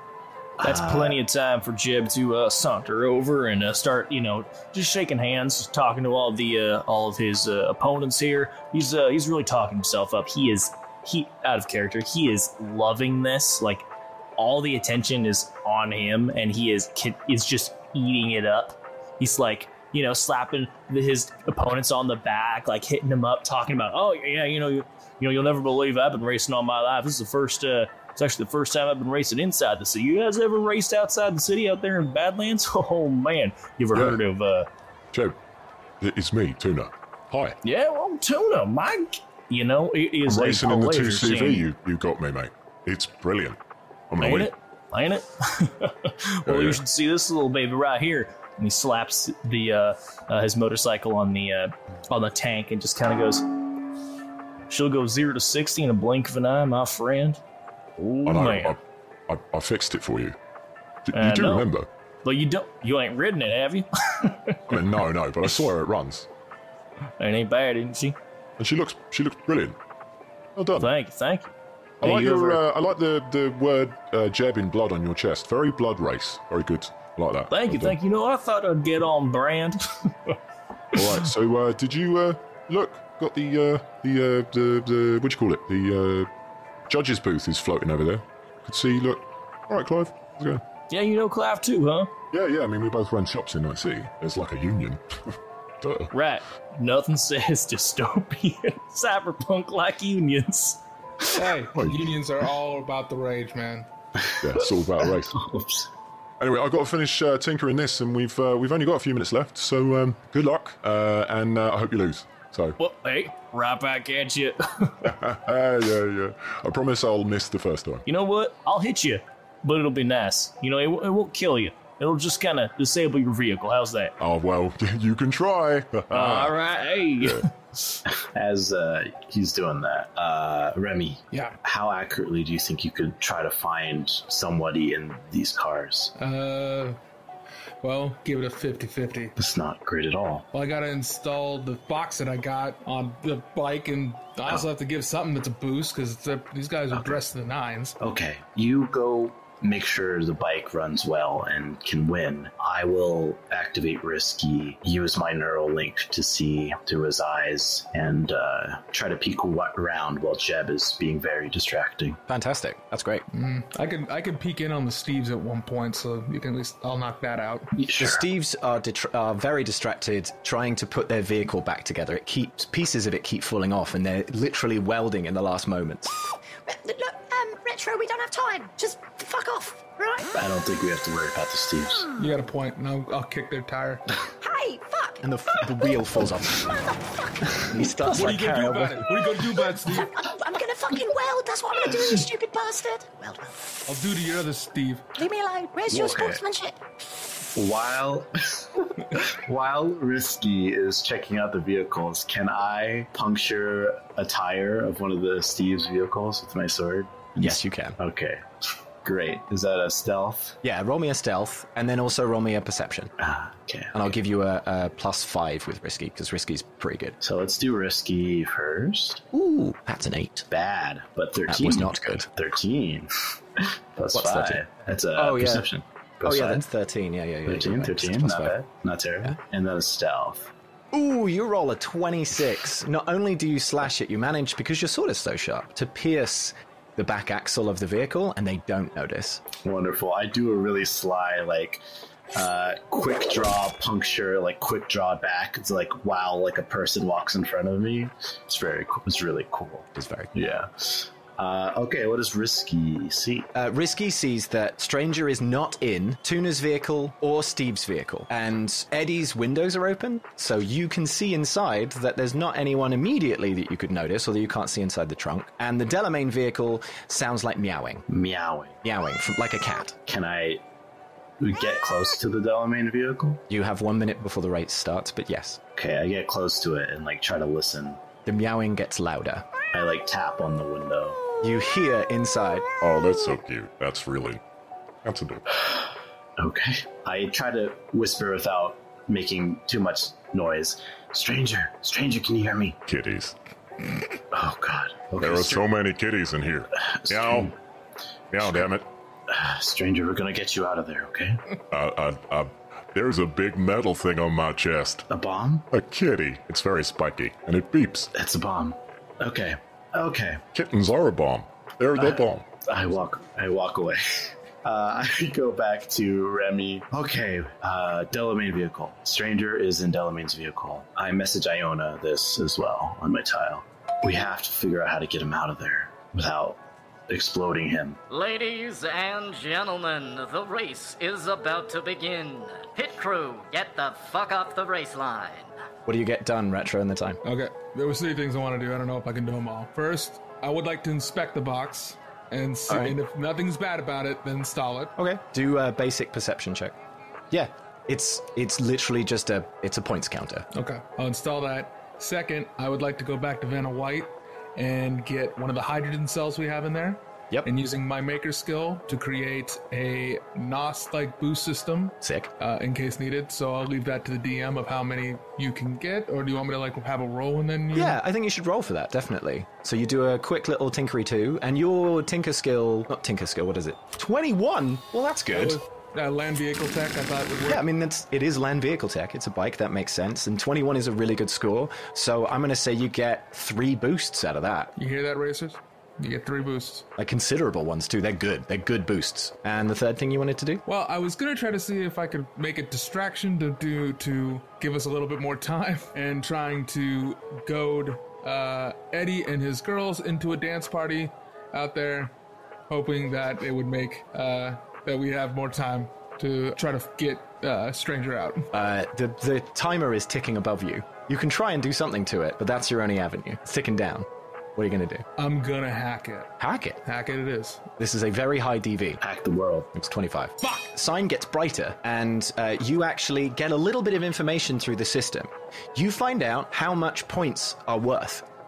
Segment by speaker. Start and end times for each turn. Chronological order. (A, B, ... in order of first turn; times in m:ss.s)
0:00.6-0:01.2 A
0:00.6-0:13.9 B
0:14.4-0:34.7 B
0:33.9-0:34.2 C
0:35.1-0:35.4 C
0:36.0-0:37.6 C
0:37.6-0:41.7 B
0:40.3-0:43.6 C
0:44.1-0:44.5 C
0:44.2-0:53.4 B
0:46.5-0:46.8 C
0:54.7-0:57.4 B
0:58.0-0:58.8 B
0:58.2-1:00.4 C
1:01.1-1:01.9 C
1:01.1-1:01.7 B
1:02.2-1:04.6 B
1:04.7-1:06.3 C
1:07.2-1:08.2 B
1:08.6-1:09.8 C
1:10.6-1:10.9 C
1:10.8-1:12.6 B
1:12.0-1:18.0 C
1:17.5-1:20.4 B
1:21.0-1:26.3 C
1:26.9-1:30.6 C
1:30.9-1:32.1 B
1:32.3-1:36.1 C
1:36.1-1:40.8 B
1:41.3-1:43.9 D
1:41.7-1:42.0 C
1:44.2-1:45.9 A
1:44.4-1:45.4 C
1:46.4-1:52.8 C
1:52.8-1:55.1 B
1:55.0-1:58.0 C
1:58.1-2:04.1 B
2:04.2-2:06.6 C
2:06.1-2:08.0 B
2:07.2-2:07.5 C
2:08.3-2:16.1 A
2:11.3-2:11.6 D
2:16.2-2:17.0 D
2:17.8-2:19.4 D
2:19.4-2:20.5 A
2:20.5-2:28.0 D
2:26.9-2:27.2 A
2:28.0-2:42.2 A
2:42.3-2:43.3 E
2:43.3-2:47.7 D
2:47.8-2:48.2 A
2:48.0-2:56.3 E
2:56.7-3:00.2 F
3:00.3-3:02.1 A
3:02.2-3:04.0 D
3:04.4-3:05.2 F
3:05.2-3:06.7 E
3:06.7-3:07.1 F
3:07.6-3:09.0 E
3:08.1-3:10.1 D
3:09.9-3:13.5 F
3:13.9-3:15.0 D
3:15.2-3:16.7 F
3:15.9-3:16.4 A
3:17.6-3:28.5 A
3:27.4-3:28.0 E
3:29.0-3:30.6 A
3:30.6-3:33.1 E
3:33.2-3:34.1 A
3:33.9-3:37.2 E
3:37.2-3:39.2 A
3:39.3-3:40.5 E
3:40.5-3:46.6 A
3:41.5-3:42.3 E
3:44.1-3:44.6 E
3:45.2-3:45.7 E
3:46.2-3:48.6 E
3:47.5-3:50.5 A
3:50.9-3:59.4 E
3:59.6-4:01.8 A
4:02.3-4:13.5 A
4:10.0-4:10.3 E
4:13.5-4:28.1 E
4:28.1-4:28.8 A
4:28.8-4:30.0 E
4:30.1-4:30.6 A
4:31.4-4:33.4 A
4:33.5-4:35.6 E
4:35.8-4:38.0 A
4:38.2-4:39.5 E
4:39.7-4:41.2 A
4:41.4-4:42.7 E
4:42.8-4:44.4 C
4:45.0-4:45.4 C
4:46.4-4:52.8 A
4:52.9-4:53.4 C
4:54.3-4:55.6 A
4:55.2-4:57.5 C
4:56.7-4:57.5 A
4:58.3-4:58.8 C
4:58.4-4:58.7 A
4:59.3-5:01.4 A
5:01.7-5:05.0 C
5:05.1-5:05.7 A
5:05.7-5:08.1 C
5:08.2-5:10.4 A
5:10.5-5:12.4 C
5:12.0-5:28.0 A
5:28.1-5:35.5 G
5:35.9-5:37.2 E
5:37.2-5:44.9 D
5:42.7-5:43.0 E
5:45.0-5:46.8 E
5:47.3-5:50.5 E
5:50.5-6:08.0 D
6:02.0-6:02.3 E
6:07.7-6:15.6 E
6:15.3-6:17.6 D
6:17.4-6:24.7 E
6:24.8-6:26.9 D
6:27.0-6:30.6 E
6:30.7-6:42.1 D
6:42.7-6:48.5 D
6:48.5-6:55.1 E
6:55.2-6:57.7 D
6:56.4-6:56.8 E
6:57.8-6:59.0 E
6:59.0-6:59.7 A
6:59.7-7:08.2 E